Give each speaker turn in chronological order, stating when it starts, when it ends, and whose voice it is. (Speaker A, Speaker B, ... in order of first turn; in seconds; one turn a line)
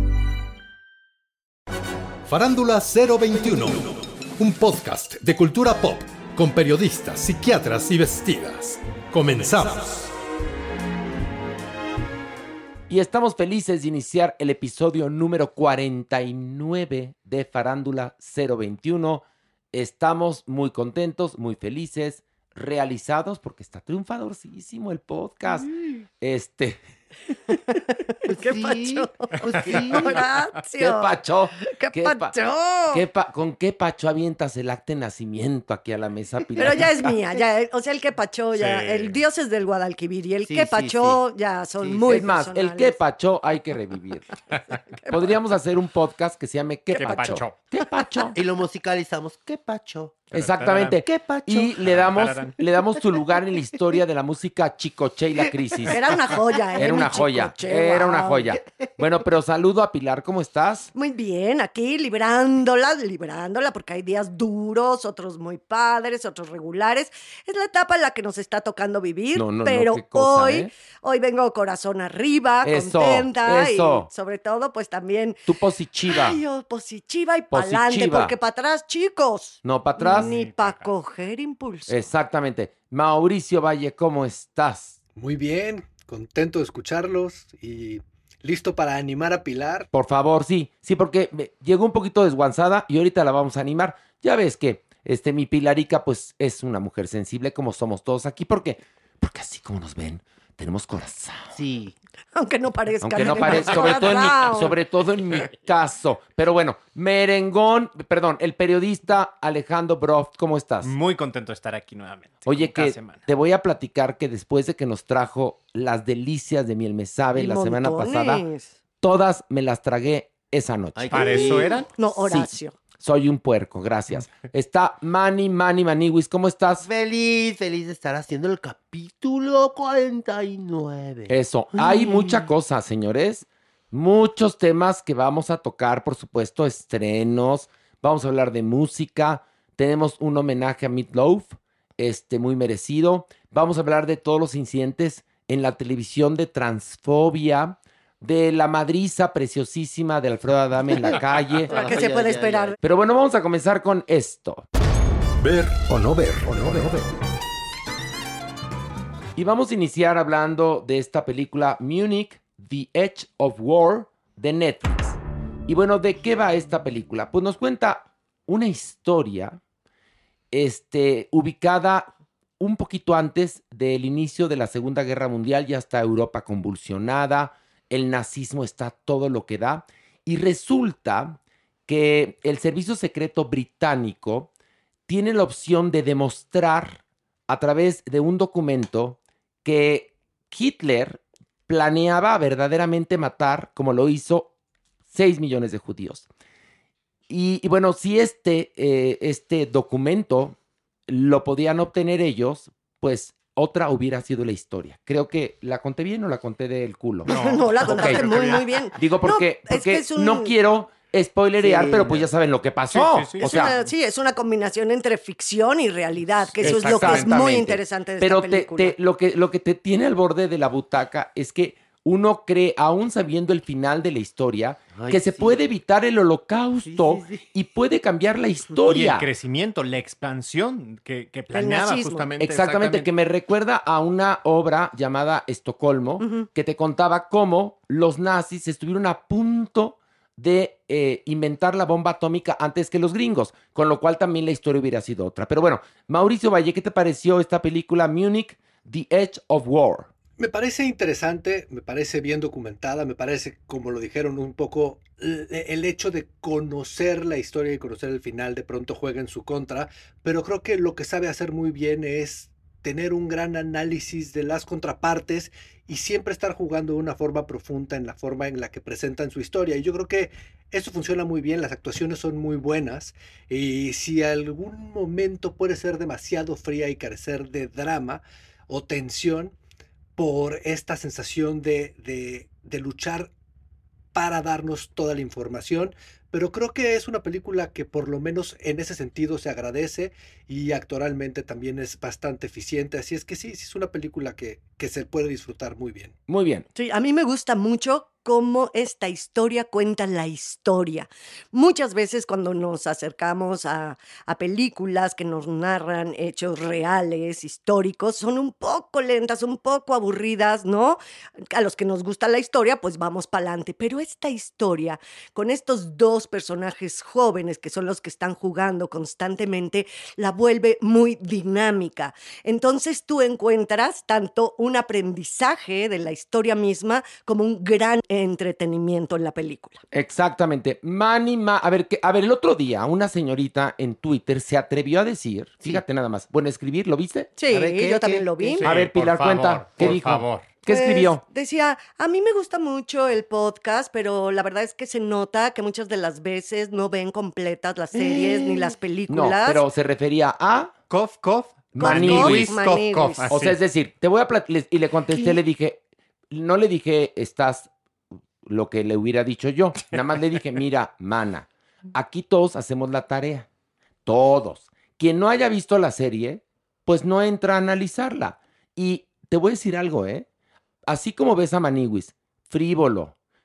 Speaker A: 2.3-10.1
Speaker B: 12.9-25.7
Speaker B: 26.2-26.8
Speaker C: 27.5-33.0
Speaker D: 28.3-30.2
Speaker B: 30.8-32.3
Speaker B: 32.9-37.0
Speaker C: 36.5-43.0
Speaker E: 38.5-39.2
Speaker D: 40.5-41.2
Speaker D: 41.8-42.2
Speaker B: 42.0-44.3
Speaker B: 45.1-48.4
Speaker E: 46.9-47.5
Speaker D: 48.3-50.2
Speaker E: 50.3-51.0
Speaker B: 50.3-56.0
Speaker D: 51.0-51.7
Speaker E: 51.8-52.6
Speaker C: 55.9-58.5
Speaker B: 56.7-60.9
Speaker C: 60.9-75.4
Speaker B: 69.3-70.7
Speaker B: 72.6-74.1
Speaker B: 75.5-76.4
Speaker C: 76.0-82.0
Speaker B: 77.5-78.3
Speaker B: 79.6-80.3
Speaker E: 80.0-80.9
Speaker B: 81.9-85.0
Speaker F: 85.2-89.9
Speaker B: 89.9-101.6
Speaker D: 101.5-101.9
Speaker C: 102.3-104.8
Speaker B: 103.0-110.9
Speaker E: 110.8-113.2
Speaker B: 112.5-118.4
Speaker C: 117.3-118.7
Speaker B: 119.0-121.6
Speaker D: 121.0-121.8
Speaker E: 121.1-121.9
Speaker C: 121.9-122.7
Speaker B: 122.1-126.9
Speaker D: 126.8-131.3
Speaker B: 131.3-151.7
Speaker D: 151.7-152.8
Speaker C: 151.7-152.8
Speaker B: 152.8-154.6
Speaker A: 155.4-157.1
Speaker B: 159.3-169.6
Speaker B: 170.5-172.1
Speaker B: 172.6-184.5
Speaker B: 185.1-194.5
Speaker B: 195.1-196.2
Speaker B: 197.3-200.6
Speaker B: 201.1-208.3
Speaker E: 207.3-208.6
Speaker C: 207.3-210.5
Speaker B: 208.9-213.7
Speaker D: 211.6-212.3
Speaker E: 212.9-213.8
Speaker C: 213.4-218.9
Speaker E: 216.6-217.5
Speaker B: 216.6-229.3
Speaker D: 224.9-225.6
Speaker D: 226.8-227.4
Speaker E: 228.8-233.1
Speaker C: 231.5-232.2
Speaker B: 232.4-250.1
Speaker C: 236.2-236.5
Speaker F: 250.4-279.5
Speaker F: 280.1-283.3
Speaker F: 284.1-296.1
Speaker B: 296.3-296.6
Speaker C: 296.7-311.0
Speaker C: 311.5-329.8
Speaker B: 329.9-337.4
Speaker C: 337.4-338.7
Speaker D: 337.5-338.5
Speaker E: 338.6-340.5
Speaker B: 338.6-341.2
Speaker C: 340.7-349.6
Speaker B: 349.1-350.7
Speaker E: 350.9-353.6
Speaker B: 351.7-352.6
Speaker C: 351.8-353.3
Speaker B: 353.3-357.7
Speaker B: 358.4-363.5
Speaker B: 364.1-370.2
Speaker B: 370.9-373.1